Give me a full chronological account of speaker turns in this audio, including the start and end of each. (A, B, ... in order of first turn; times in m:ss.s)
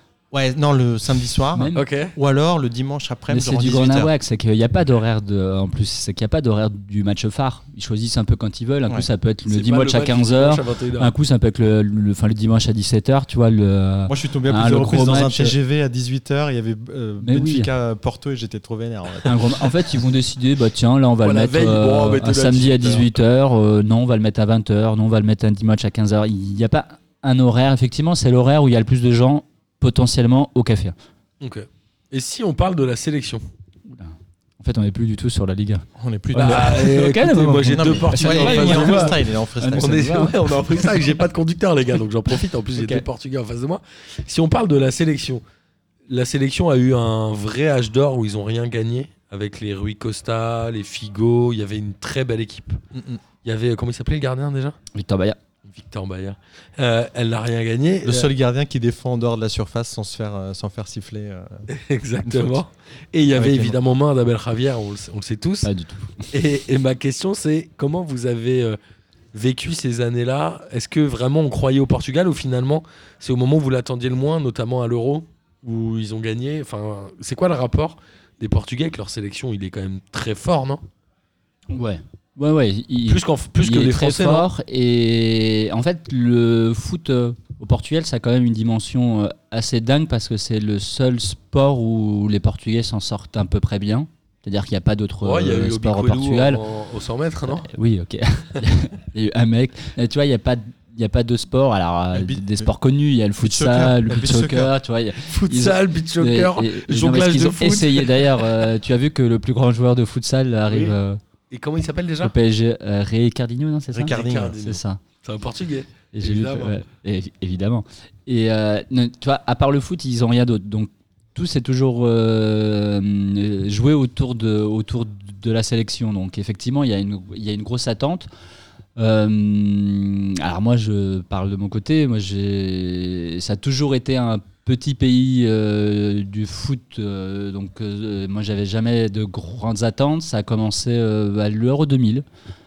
0:00.3-0:04.1 A
0:01.5-0:01.9 B
0:01.7-0:02.2 C
0:03.3-0:15.6 B
0:09.5-0:11.1 C
0:14.1-0:19.4 A
0:17.2-0:17.7 B
0:19.2-0:31.0 B
0:21.2-0:23.1 C
0:31.4-0:33.4 C
0:33.8-0:41.1 B
0:36.0-0:37.0 A
0:36.3-0:45.4 C
0:37.6-0:40.2 A
0:42.7-0:43.0 A
0:46.1-0:52.8 C
0:52.9-0:53.2 A
0:53.4-0:54.8 C
0:54.9-0:55.4 B
0:55.6-0:58.3 C
0:58.0-1:01.7 A
1:01.7-1:05.7 C
1:02.2-1:02.6 A
1:03.3-1:03.8 A
1:05.6-1:06.2 B
1:06.3-1:08.8 C
1:09.3-1:20.8 C
1:21.7-1:36.6 B
1:23.1-1:24.5 C
1:35.2-1:37.7 C
1:37.5-1:51.2 B
1:42.1-1:42.7 A
1:43.4-1:44.7 A
1:45.2-1:48.7 C
1:50.7-1:50.9 C
1:51.5-1:52.3 C
1:52.2-1:55.0 B
1:53.9-1:56.8 C
1:54.0-1:54.6 A
1:56.1-2:08.3 B
2:09.0-2:22.2 B